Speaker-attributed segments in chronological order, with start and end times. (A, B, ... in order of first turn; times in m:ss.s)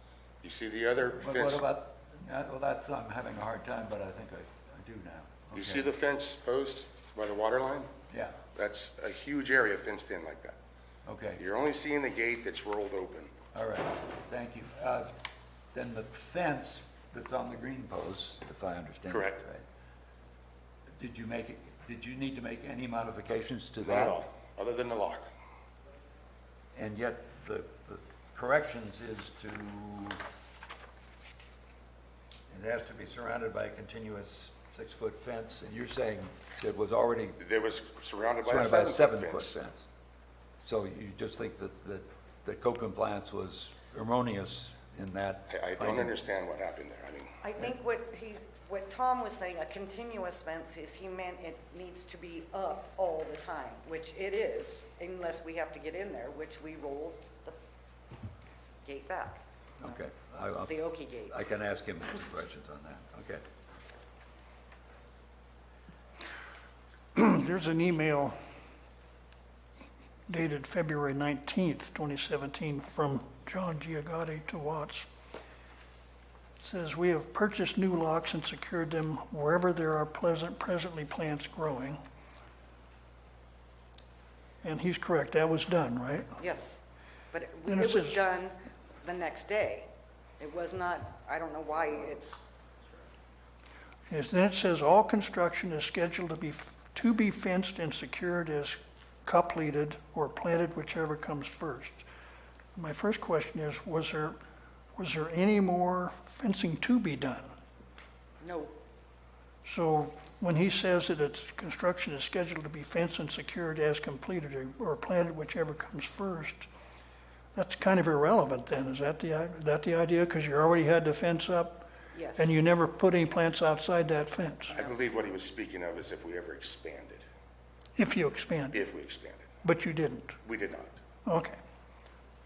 0:00.4-0:01.6 A
0:01.2-0:05.9 B
0:05.5-0:07.9 A
0:08.1-0:08.4 B
0:08.5-0:10.6 A
0:11.0-0:11.4 B
0:11.4-0:13.3 A
0:13.5-0:15.2 B
0:15.7-0:19.6 B
0:19.1-0:19.4 A
0:20.9-0:24.2 B
0:23.8-0:25.3 A
0:26.7-0:30.2 B
0:32.5-0:37.4 B
0:37.4-0:39.5 A
0:38.4-0:39.8 B
0:40.6-0:46.1 B
0:45.5-0:47.4 A
0:47.4-0:57.6 C
0:58.8-1:00.0 C
0:59.8-1:03.4 B
1:00.6-1:01.4 C
1:07.1-1:08.3 D
1:10.3-1:15.1 D
1:16.6-1:22.0 D
1:24.6-1:26.3 D
1:26.4-1:26.8 C
1:27.3-1:29.9 C
1:27.6-1:28.2 D
1:30.4-1:32.4 C
1:34.1-1:42.0 D
1:42.8-1:44.4 D
1:45.0-1:47.5 D
1:48.4-1:48.7 C
1:49.6-1:56.7 D
1:57.5-2:04.8 D
2:02.1-2:02.6 C
2:04.7-2:07.2 A
2:08.0-2:08.8 D
2:08.7-2:09.5 A
2:09.6-2:10.4 D
2:10.4-2:11.0 A
2:11.2-2:11.6 D